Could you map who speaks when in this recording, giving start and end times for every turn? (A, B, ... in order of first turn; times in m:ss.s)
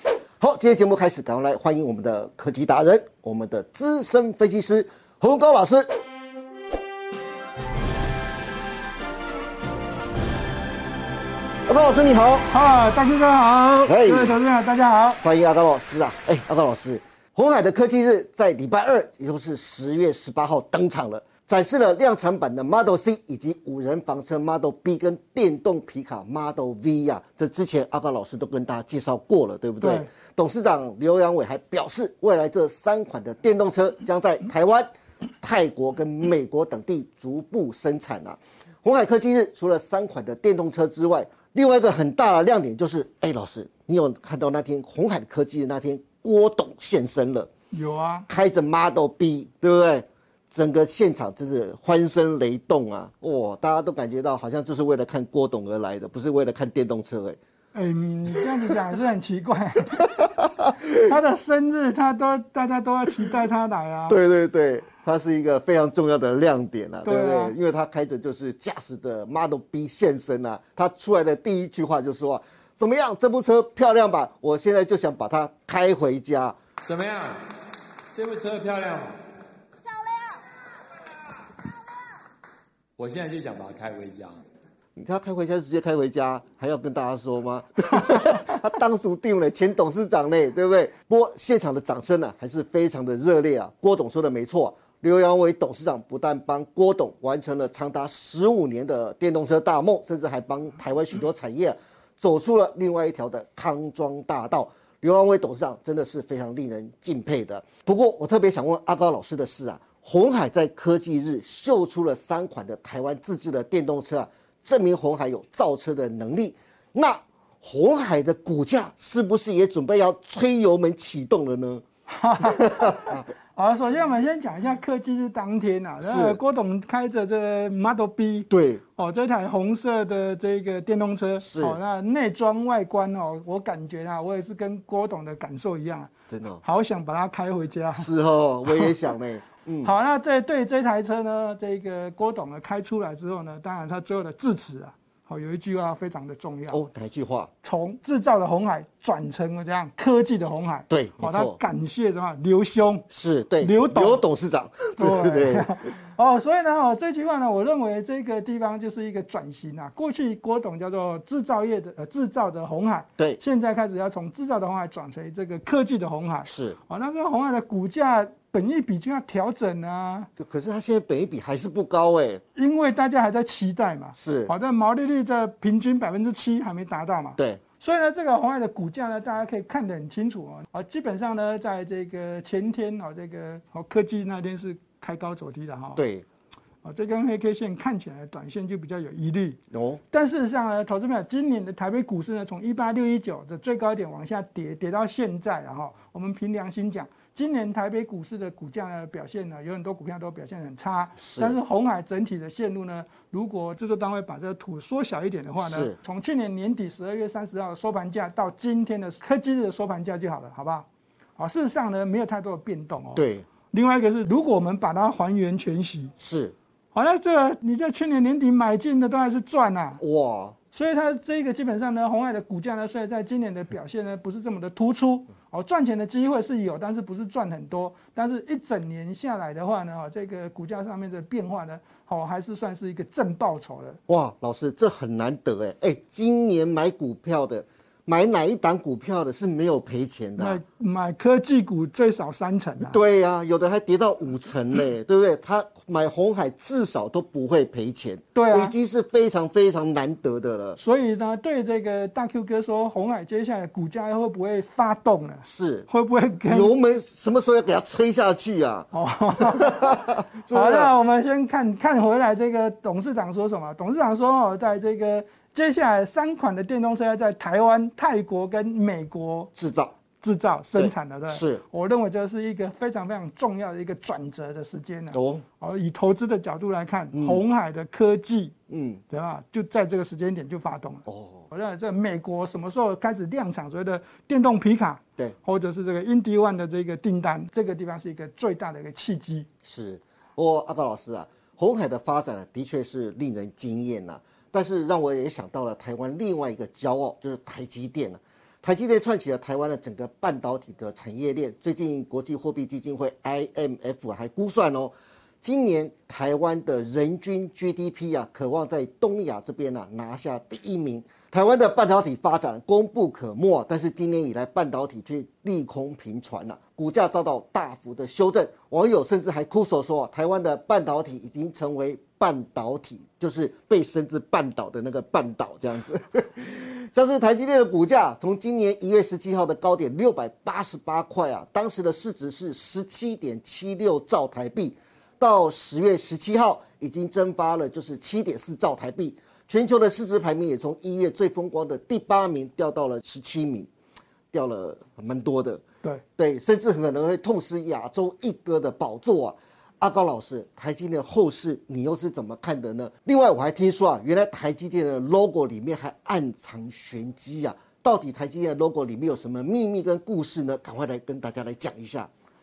0:00.4-0:05.9 A
0:11.7-0:12.5 A
0:12.5-0:15.2 B
0:13.8-0:14.4 A
0:15.2-0:47.5 A
0:29.8-0:30.1 B
0:47.7-0:48.3 B
0:48.3-0:57.4 A
0:57.7-1:00.1 B
1:00.1-1:01.0 A
1:01.0-1:04.2 B
1:04.1-1:16.6 A
1:07.0-1:07.5 B
1:16.8-1:17.4 C
1:18.1-1:19.2 C
1:23.0-1:24.4 C
1:25.0-2:01.8 A
2:02.1-2:16.1 B
2:02.4-2:03.2 A
2:06.0-2:06.4 A
2:08.5-2:08.8 A
2:11.4-2:11.8 A
2:16.3-2:16.6 A
2:16.6-2:18.1 B
2:17.9-2:19.9 A
2:18.6-2:18.9 B
2:19.8-2:26.8 B
2:26.7-2:27.5 A
2:27.6-2:33.0 B
2:30.9-2:31.6 A
2:33.1-2:35.7 A
2:33.6-2:34.2 B
2:35.0-2:50.3 B
2:46.4-2:46.8 A
2:50.4-2:52.4 A
2:52.5-3:06.0 B
2:54.2-2:54.5 A
3:06.0-3:06.2 A
3:06.8-3:09.6 B
3:09.7-3:10.0 A
3:10.1-3:30.8 B
3:21.2-3:21.6 A
3:25.6-3:26.0 A
3:31.4-3:36.1 B
3:33.1-3:33.4 A
3:36.2-3:36.5 A
3:36.9-3:40.0 B
3:40.0-3:40.6 A
3:40.7-3:54.0 B
3:54.1-4:00.6 A
4:00.4-4:03.0 B
4:02.8-4:10.8 A
4:08.3-4:08.8 B
4:10.8-4:16.7 B
4:15.4-4:15.9 A
4:16.5-4:20.9 A
4:18.9-4:29.5 B
4:29.5-4:29.9 A
4:30.2-4:38.5 B
4:30.8-4:31.6 A
4:35.1-4:35.4 A
4:37.1-4:37.4 A
4:38.7-4:39.0 A
4:39.1-4:49.5 B
4:41.1-4:41.5 A
4:49.6-5:43.7 A
5:44.3-5:45.6 A
5:46.2-6:02.1 A